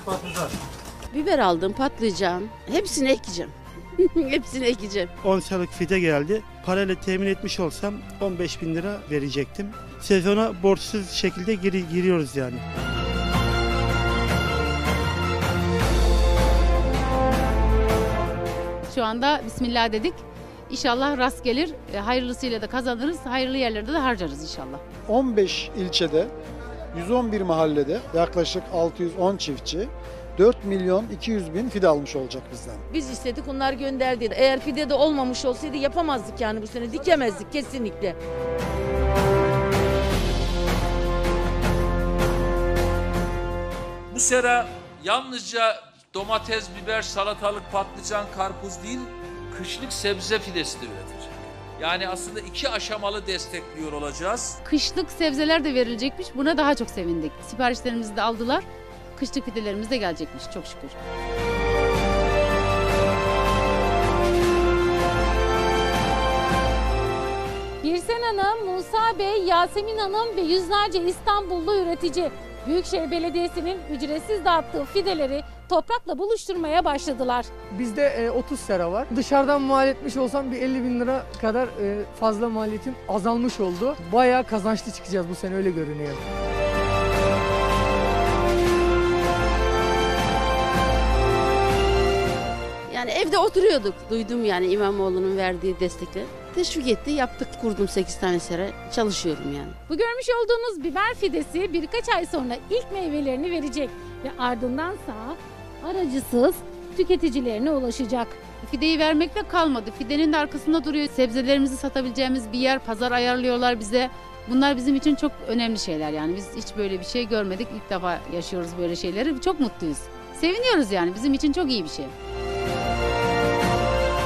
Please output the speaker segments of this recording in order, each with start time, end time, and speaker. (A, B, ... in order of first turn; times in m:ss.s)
0:01.1-0:05.1 A
0:05.2-0:12.6 B
0:18.9-0:24.8 C
0:25.1-0:26.3 D
0:26.9-0:32.8 D
0:32.9-0:38.2 E
0:44.1-0:54.6 F
0:54.6-1:00.9 C
1:07.8-1:17.5 G
1:17.7-1:26.2 H
1:32.9-1:39.8 A
1:39.9-1:48.4 G
1:48.6-2:02.1 C